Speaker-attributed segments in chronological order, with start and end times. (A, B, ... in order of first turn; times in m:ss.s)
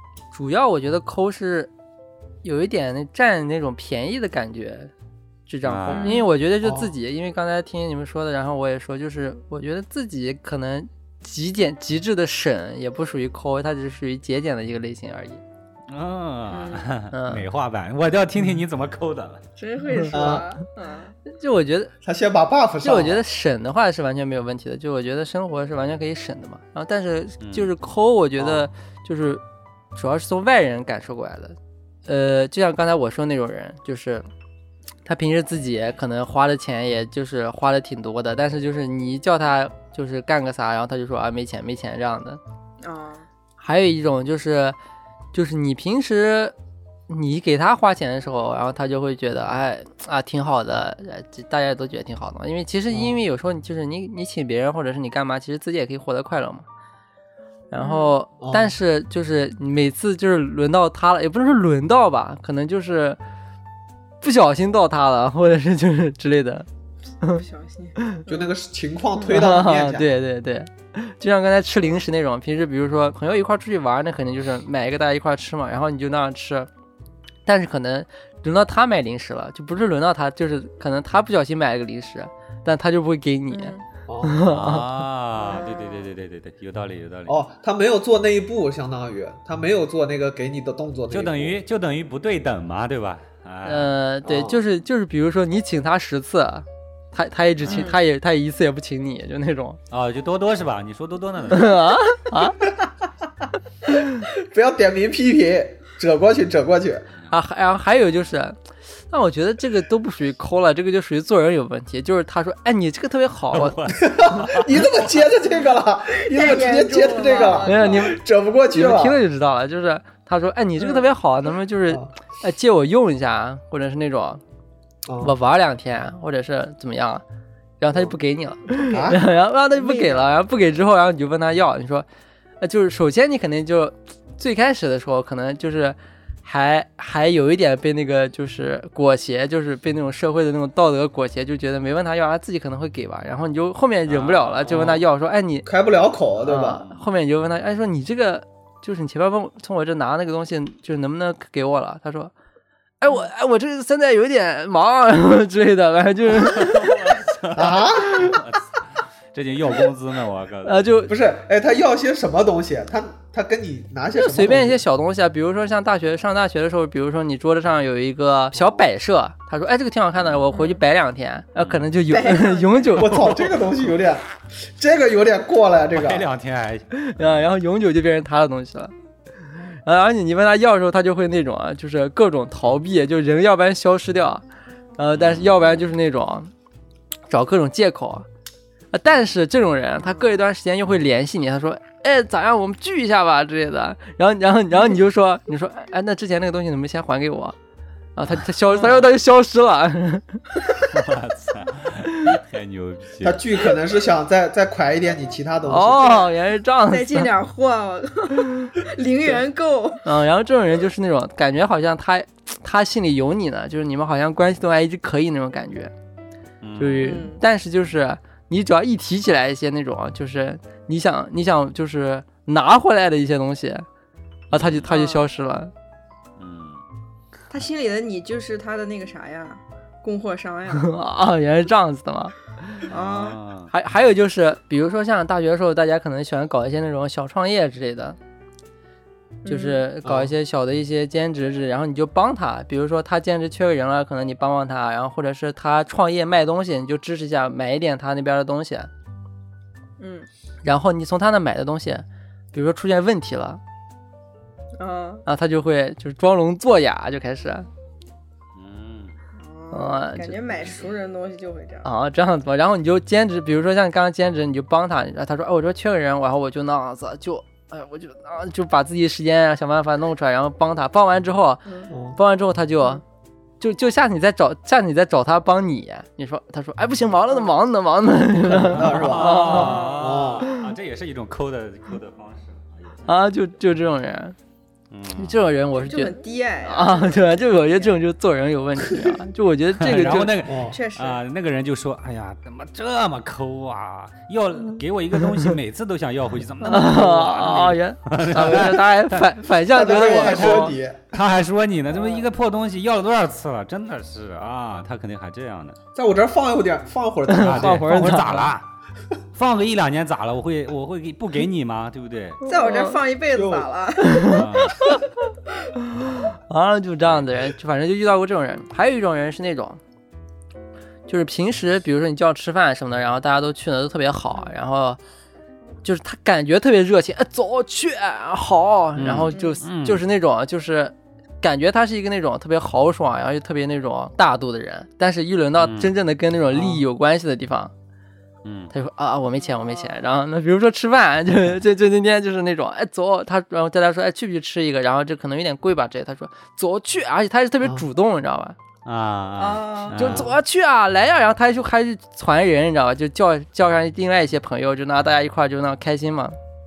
0:00.3-0:01.7 A
0:02.4-0:04.9 A
0:05.5-0:15.4 A
0:05.6-0:06.1 B
0:05.9-0:06.3 C
0:06.6-0:06.9 D
0:15.9-0:19.4 B
0:16.5-0:16.9 C
0:17.1-0:17.4 A
0:19.6-0:21.1 C
0:19.9-0:20.4 A
0:20.1-0:20.4 D
0:21.2-0:21.9 A
0:22.0-0:23.2 D
0:22.8-0:29.4 A
0:27.4-0:27.7 B
0:28.4-0:28.7 D
0:29.9-0:31.6 A
0:32.1-0:34.3 A
0:35.0-0:42.4 A
0:42.8-0:43.2 C
0:43.6-0:44.8 A
0:45.3-0:46.5 A
0:47.1-0:56.6 A
0:52.9-0:53.2 D
0:57.7-1:03.2 A
0:57.8-0:58.1 C
0:58.4-0:58.7 D
1:04.2-1:06.7 A
1:07.3-1:08.5 C
1:08.3-1:10.1 D
1:09.2-1:16.7 A
1:17.4-1:24.9 A
1:23.5-1:23.8 C
1:24.1-1:24.4 D
1:24.5-1:27.4 B
1:25.4-1:26.1 C
1:27.3-1:31.6 D
1:31.1-1:34.0 B
1:33.6-1:39.8 A
1:34.2-1:34.6 D
1:37.6-1:37.8 B
1:37.6-1:38.0 C
1:39.9-1:41.7 B
1:41.5-1:42.6 A
1:44.3-1:47.1 D
1:47.3-1:48.6 A
1:49.1-1:53.8 A
1:53.5-1:55.3 B
1:54.0-1:59.2 D
1:56.2-1:58.2 C
1:57.6-1:58.2 A
1:58.7-2:04.4 A
2:00.8-2:01.0 C
2:05.0-2:05.3 D
2:05.2-2:07.2 A
2:07.8-2:12.0 A
2:08.7-2:09.1 C
2:08.9-2:09.2 D
2:09.7-2:10.3 C
2:12.6-2:25.7 A
2:24.1-2:25.0 B
2:25.6-2:26.8 D
2:26.4-2:32.3 A
2:26.8-2:27.0 B
2:33.0-2:37.0 A
2:36.3-2:40.9 B
2:37.5-2:38.4 D
2:40.6-2:41.1 A
2:41.1-2:44.8 D
2:44.2-2:53.1 A
2:48.5-2:48.8 D
2:50.5-2:50.8 C
2:51.6-2:51.9 B
2:52.1-2:52.9 C
2:53.0-2:56.3 D
2:53.0-2:53.7 B
2:55.9-2:57.2 B
2:56.9-2:58.9 A
2:59.8-3:04.4 A
3:05.0-3:06.5 A
3:05.1-3:05.5 B
3:07.3-3:08.2 A
3:08.9-3:17.6 A
3:10.0-3:10.4 C
3:18.2-3:20.6 A
3:20.8-3:23.5 B
3:22.1-3:22.4 A
3:23.2-3:26.2 D
3:25.7-3:27.3 A
3:26.0-3:26.3 C
3:26.9-3:30.0 C
3:30.0-3:35.9 A
3:36.6-3:37.1 B
3:36.8-3:43.8 A
3:37.0-3:37.4 C
3:44.5-3:44.9 B
3:44.5-3:45.7 A
3:44.9-3:45.2 C
3:46.4-3:46.8 B
3:47.5-3:50.9 C
3:50.7-3:52.3 A
3:52.9-3:53.4 C
3:52.9-3:53.7 B
3:53.7-3:58.2 A
3:59.4-3:59.8 C
3:59.5-4:08.9 A
4:00.0-4:00.3 D
4:10.0-4:10.3 C
4:10.6-4:13.6 A
4:14.8-4:15.2 C
4:15.2-4:17.7 A
4:18.5-4:19.1 B
4:19.4-4:21.9 C
4:19.7-4:20.4 A
4:21.8-4:31.6 A
4:31.6-4:31.9 C
4:31.9-4:32.2 D
4:32.2-4:33.0 A
4:33.6-4:39.8 A
4:38.4-4:40.5 D
4:38.8-4:43.2 B
4:39.3-4:40.0 C
4:43.1-4:44.4 A
4:44.9-4:45.4 B
4:45.2-4:50.4 A
4:45.7-4:47.9 C
4:49.7-5:05.8 B
4:50.4-4:50.8 D
4:50.7-4:51.2 C
4:55.2-4:55.5 A
4:56.6-5:00.7 A
4:59.6-5:01.0 D
5:05.9-5:07.9 D
5:07.3-5:08.5 A
5:07.4-5:08.7 B
5:09.3-5:12.4 B
5:12.4-5:15.0 C
5:12.4-5:13.0 A
5:13.3-5:13.7 D
5:14.0-5:14.4 A
5:14.3-5:14.8 B
5:16.0-5:19.8 A
5:21.1-5:25.0 A
5:25.8-5:37.7 A
5:29.0-5:30.0 B
5:29.3-5:29.6 C
5:35.6-5:35.9 B
5:36.5-5:36.8 D
5:38.4-5:38.7 B
5:38.7-5:48.6 A
5:39.5-5:40.0 C
5:48.8-5:50.3 B
5:49.4-5:50.2 C
5:50.0-5:56.4 A